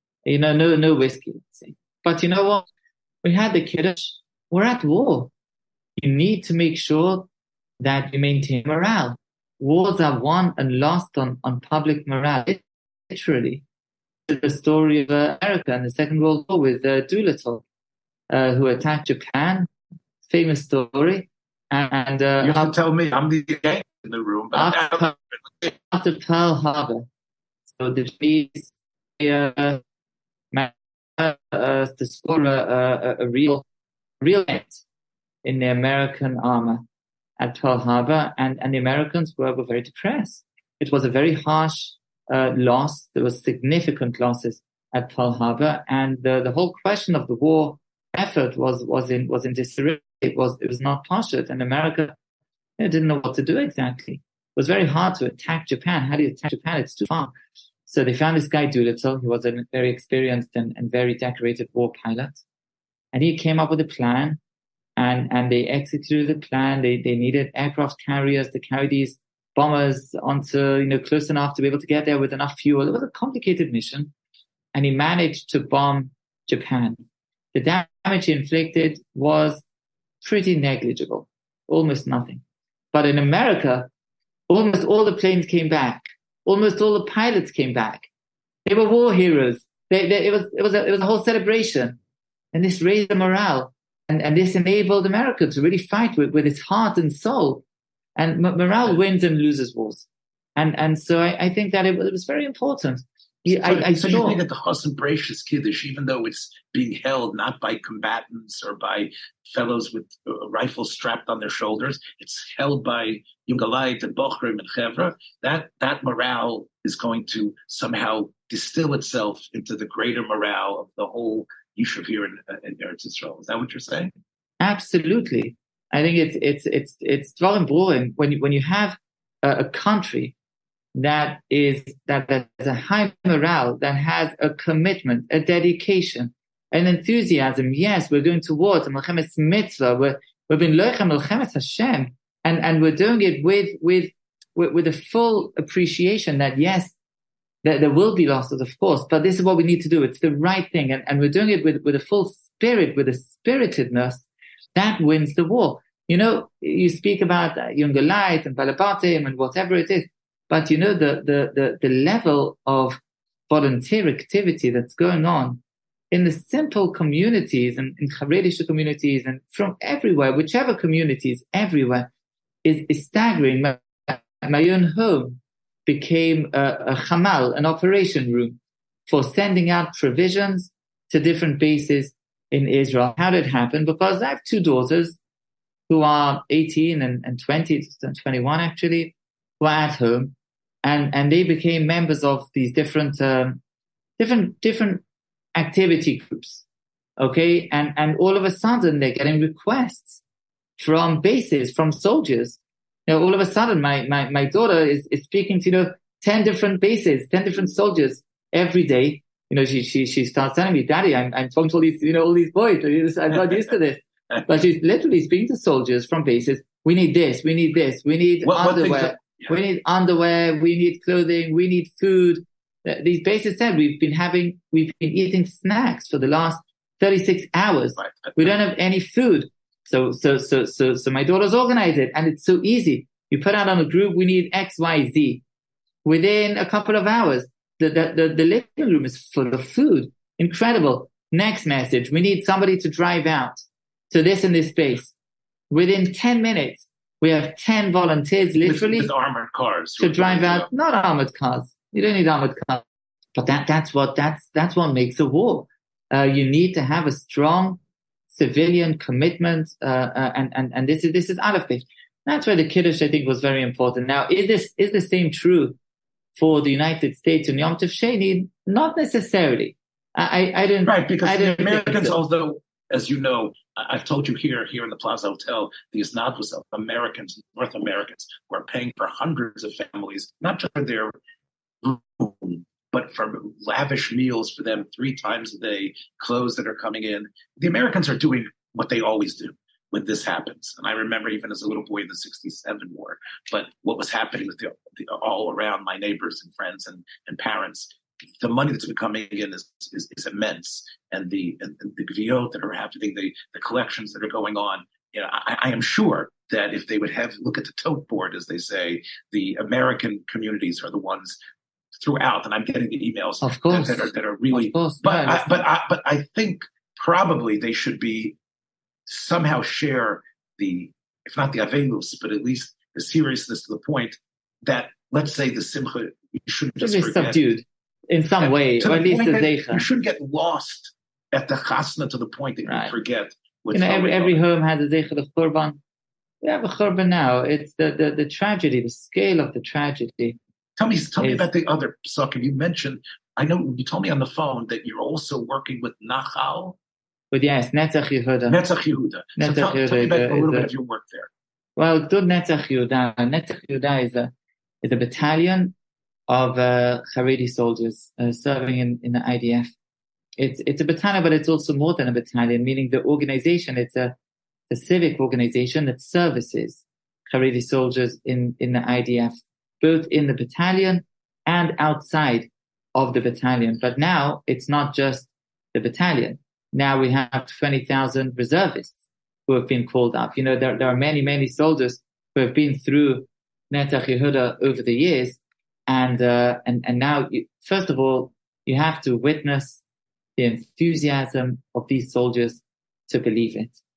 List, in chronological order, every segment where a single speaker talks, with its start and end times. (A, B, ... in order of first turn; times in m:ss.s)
0:00.2-0:02.7 A
0:03.2-0:05.3 A
0:06.0-0:07.3 A
0:07.8-0:13.6 A
0:14.3-0:17.6 A
0:18.3-0:19.7 A
0:20.2-0:22.7 A
0:22.4-0:25.2 B
0:24.5-0:27.1 A
0:27.7-0:29.8 A
0:30.5-0:33.7 A
0:34.2-0:34.8 A
0:35.4-0:36.9 A
0:37.4-0:52.2 A
0:52.8-0:57.3 A
0:57.9-1:02.4 A
1:03.1-1:04.4 A
1:05.0-1:14.1 A
1:14.7-1:17.0 A
1:17.5-1:19.6 A
1:20.2-1:23.9 A
1:24.5-1:28.1 A
1:28.7-1:32.0 A
1:32.5-1:37.6 A
1:38.2-1:44.4 A
1:43.5-2:04.1 B
2:04.6-2:10.4 A
2:11.0-2:27.0 A
2:27.6-2:52.1 A
2:52.6-3:05.2 A
3:05.9-3:13.6 A
3:14.2-3:15.0 A
3:15.6-3:16.6 A
3:17.2-3:20.2 A
3:20.8-3:55.4 A
3:33.3-3:33.6 B
3:38.4-3:39.5 B
3:48.0-3:48.6 B
3:56.0-4:05.2 A
4:05.7-4:09.1 A
4:08.6-4:10.7 B
4:10.0-4:12.8 A
4:13.4-4:17.8 A
4:18.3-4:25.8 A
4:26.4-4:32.2 A
4:30.8-4:41.1 B
4:41.8-5:11.4 B
5:12.0-5:18.4 B
5:13.4-5:15.6 A
5:19.1-5:27.4 B
5:26.8-5:29.8 A
5:28.4-5:34.4 B
5:32.7-5:32.9 A
5:33.7-5:35.8 A
5:36.4-5:40.4 A
5:40.8-5:46.8 B
5:41.2-5:41.5 A
5:47.3-5:48.6 A
5:48.5-5:51.3 B
5:49.4-5:50.7 A
5:51.8-5:55.8 A
5:56.3-5:59.7 A
6:00.4-6:04.2 A
6:04.7-6:19.0 A
6:19.5-6:29.8 A
6:30.4-6:33.8 A